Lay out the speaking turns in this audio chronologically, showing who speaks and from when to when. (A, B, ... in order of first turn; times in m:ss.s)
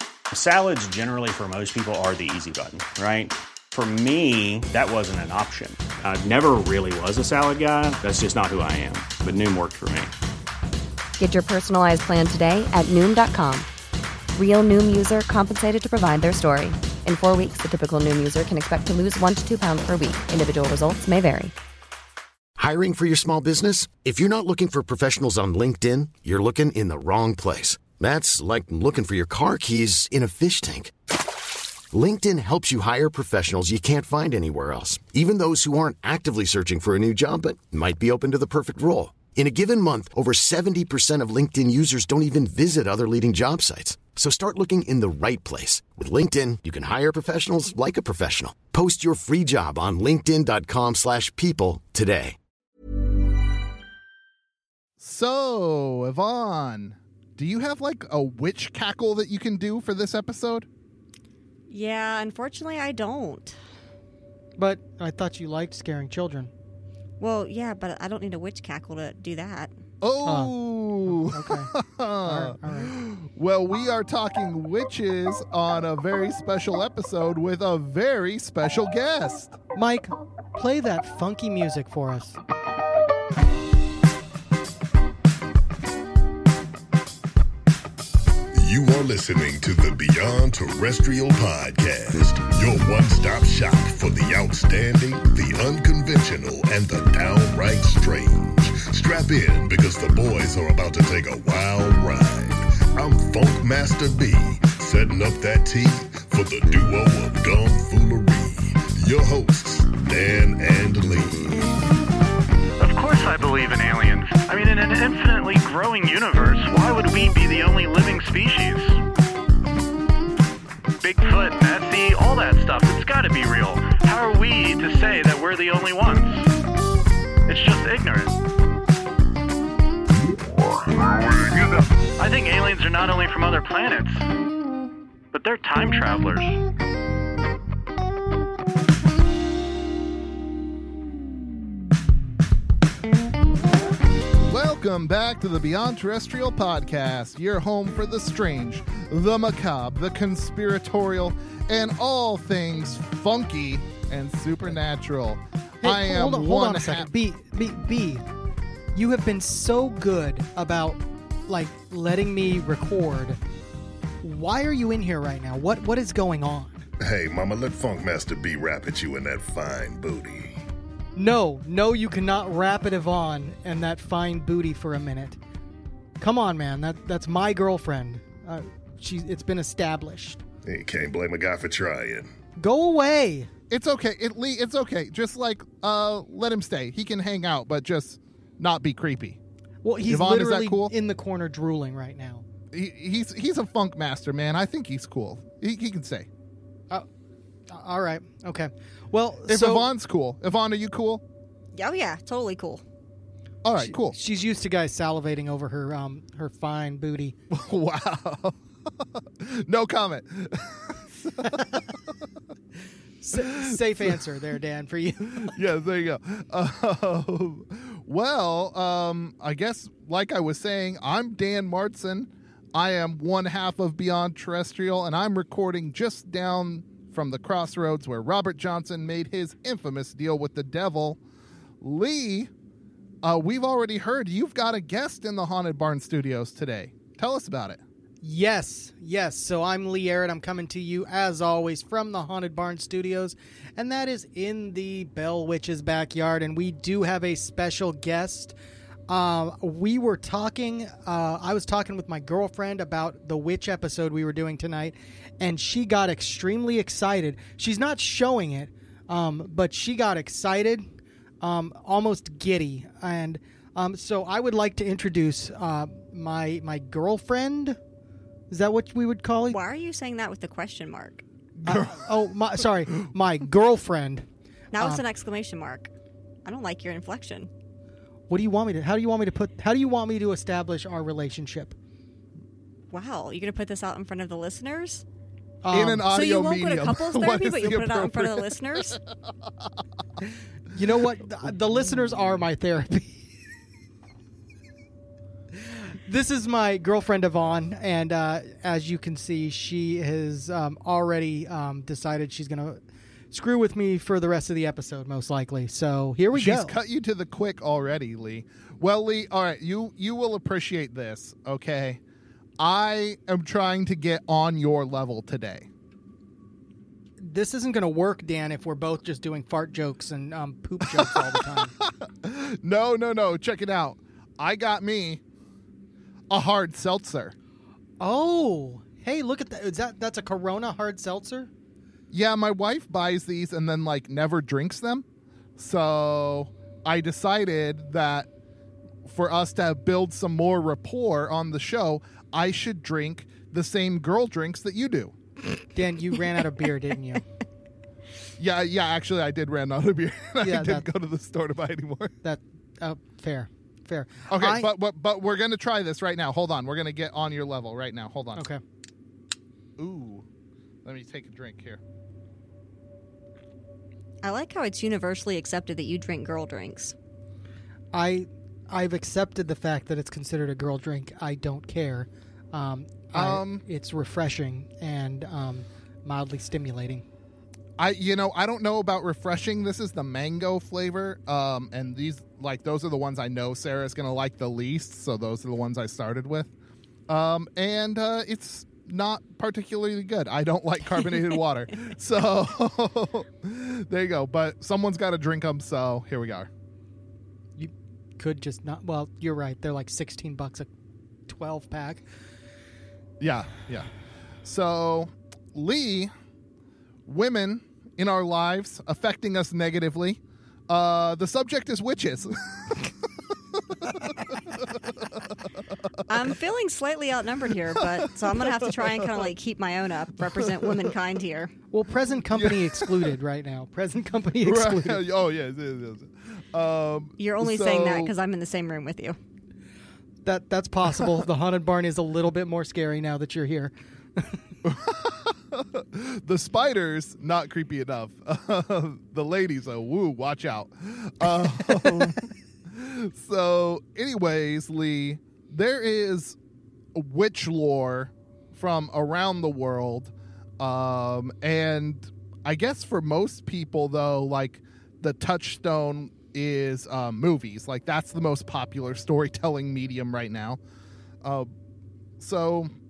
0:00.3-0:10.1 A
0:11.2-0:13.7 B
0:14.4-0:21.5 B
0:22.6-0:30.9 C
0:31.9-0:52.4 C
0:55.0-1:00.7 D
1:01.7-1:03.6 E
1:04.6-1:06.5 F
1:07.2-1:09.7 E
1:10.0-1:19.6 D
1:10.2-1:11.7 F
1:12.2-1:13.0 F
1:19.8-1:22.4 F
1:28.5-1:51.7 G
1:52.8-1:59.0 H
2:01.0-2:06.5 H
2:07.5-2:08.3 H
2:10.6-2:11.9 G
2:12.2-2:14.2 H
2:15.3-2:16.6 H
2:24.4-2:37.1 D
2:35.8-2:38.2 F
2:38.9-2:43.4 F
2:44.2-2:46.8 F
2:47.0-2:50.6 G
2:51.2-2:55.4 F
2:56.2-3:00.4 F
3:00.7-3:02.3 G
3:02.6-3:03.5 F
3:03.7-3:09.4 D
3:09.8-3:12.5 F
3:10.1-3:10.9 D
3:12.7-3:16.3 D
3:17.7-3:19.9 F
3:19.5-3:21.2 D
3:21.7-3:22.8 E
3:23.6-3:24.2 D
3:23.8-3:27.4 F
3:27.5-3:31.8 D
3:31.4-3:31.8 F
3:33.2-3:35.5 F
3:33.5-3:34.1 D
3:35.3-3:51.2 D
3:51.8-3:52.5 D
3:53.2-3:57.8 D
3:58.2-4:08.6 F
4:09.1-4:20.9 F
4:21.4-4:27.8 F
4:28.5-4:29.6 F
4:29.5-4:31.2 E
4:31.6-4:32.4 D
4:31.6-4:34.2 F
4:34.7-4:35.9 E
4:36.4-4:37.5 E
4:38.3-4:41.8 F
4:42.9-4:45.0 E
4:45.6-4:46.1 F
4:45.7-4:49.0 D
4:46.1-4:49.0 E
4:50.7-4:53.2 F
4:56.0-5:02.8 F
5:03.3-5:06.8 F
5:06.3-5:12.0 D
5:12.6-5:15.7 D
5:17.2-5:21.7 F
5:20.9-5:25.2 D
5:26.3-5:27.4 D
5:28.0-5:31.5 F
5:32.1-5:35.0 D
5:35.6-5:38.3 D
5:39.0-5:45.1 D
5:45.7-5:47.2 F
5:48.4-5:52.1 D
5:50.4-5:50.9 F
5:52.2-5:54.7 F
5:54.3-5:58.5 D
5:59.8-6:00.2 D
6:00.8-6:01.8 D
6:04.2-6:06.9 E
6:07.9-6:17.0 F
6:13.1-6:13.6 D
6:17.8-6:26.5 D
6:27.1-6:36.5 D
6:37.6-6:40.7 F
6:41.3-6:42.0 F
6:43.2-6:43.9 D
6:44.4-6:46.1 D
6:47.1-6:52.9 D
6:53.7-6:54.8 D
6:56.1-6:56.3 D
6:56.1-7:01.5 E
6:57.8-6:59.3 D
7:00.2-7:01.0 D
7:01.7-7:05.0 F
7:02.3-7:03.1 D
7:04.4-7:08.1 D
7:07.2-7:09.2 E
7:10.2-7:14.4 F
7:14.6-7:26.4 D
7:26.9-7:40.6 D
7:41.2-7:41.5 D
7:42.2-7:42.7 D